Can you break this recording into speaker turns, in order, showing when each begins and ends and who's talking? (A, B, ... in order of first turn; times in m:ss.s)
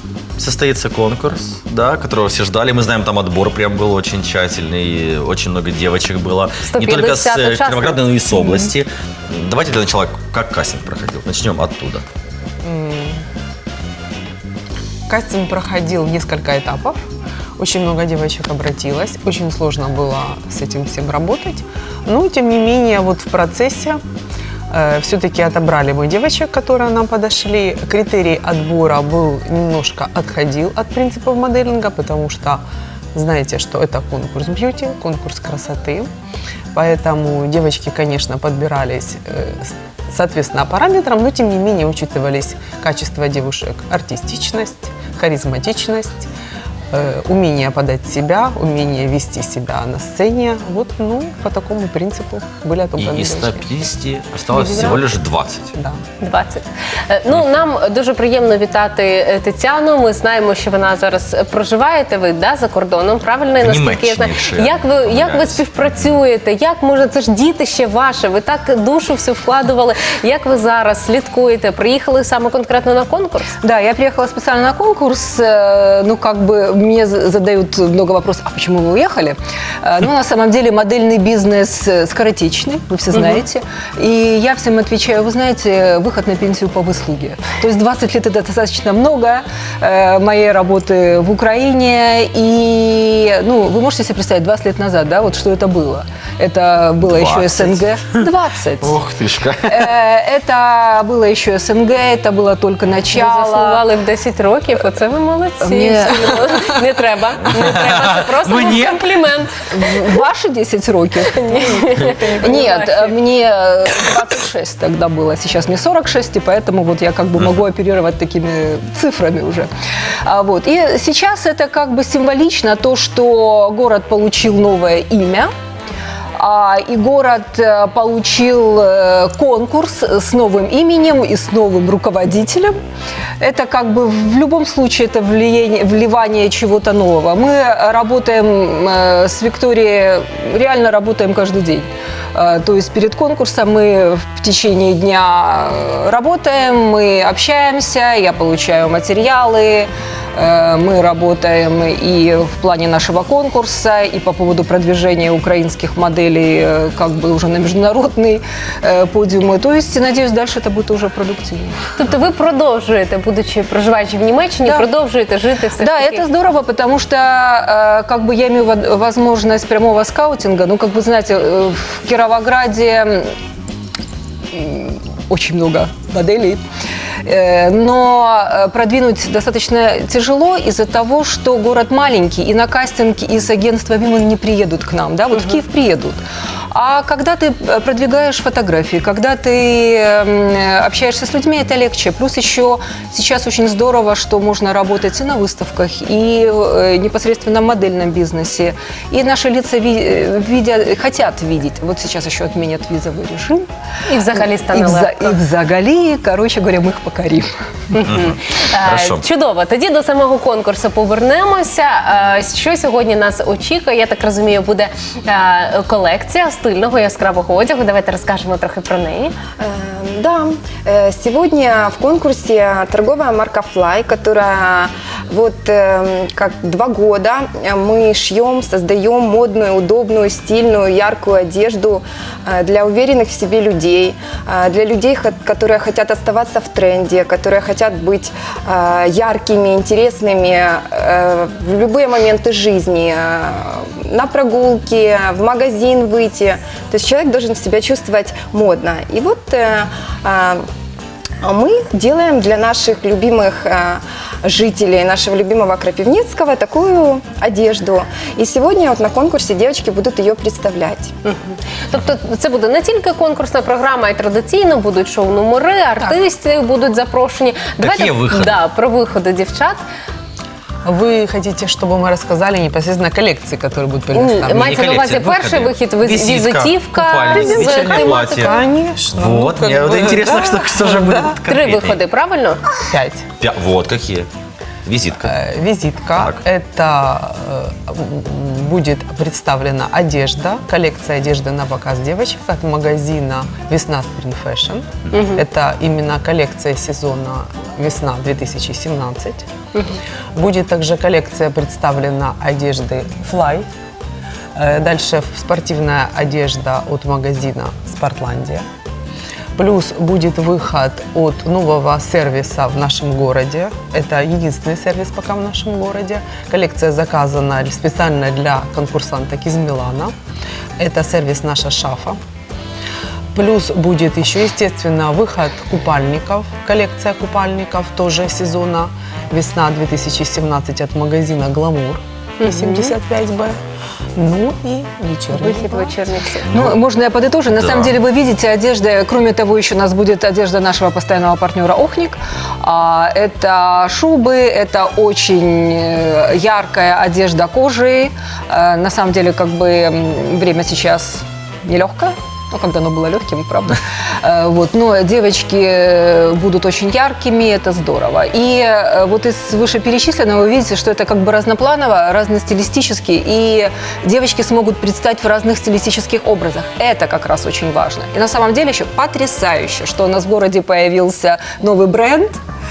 0:00.4-0:12.0 A
0:06.7-0:08.7 B
0:12.6-0:13.2 C
0:15.1-0:17.0 C
0:17.6-0:24.0 C
0:24.7-0:32.6 C
0:33.1-0:36.1 C
0:36.7-0:46.3 C
0:46.9-0:53.6 C
0:53.0-0:55.7 A
0:54.6-0:55.0 B
0:55.8-0:56.0 C
0:56.2-1:13.5 B
1:03.6-1:05.6 A
1:13.6-1:39.0 D
1:37.1-1:38.2 A
1:38.8-1:39.9 A
1:39.6-1:43.8 D
1:43.1-1:50.2 B
1:45.6-1:46.5 D
1:47.8-1:49.0 A
1:49.7-1:59.7 D
1:51.3-1:53.1 B
2:00.2-2:05.5 D
2:06.4-2:12.8 D
2:13.4-2:41.8 D
2:42.0-2:46.2 B
2:45.8-2:53.3 D
2:54.5-2:56.6 D
2:57.2-3:06.2 D
3:06.7-3:23.7 D
3:24.1-3:25.3 B
3:24.3-3:27.5 D
3:27.9-3:39.4 B
3:28.0-3:29.2 A
3:39.6-4:10.6 E
4:11.4-4:21.1 E
4:21.2-4:29.8 B
4:27.8-4:28.6 A
4:30.8-4:34.8 C
4:34.1-4:38.6 B
4:34.6-4:38.6 A
4:37.4-4:41.3 C
4:39.1-4:42.0 A
4:41.5-4:42.6 B
4:42.9-4:43.3 C
4:43.4-4:44.3 A
4:44.8-4:45.3 A
4:45.2-4:59.4 C
4:55.1-4:55.4 B
5:00.3-5:03.6 C
5:04.6-5:08.6 C
5:09.6-5:20.1 C
5:20.8-5:22.2 C
5:23.3-5:33.6 C
5:32.4-5:32.9 B
5:34.2-5:36.0 C
5:35.4-5:36.5 B
5:36.5-5:36.8 A
5:36.5-6:12.4 D
5:37.5-5:37.9 A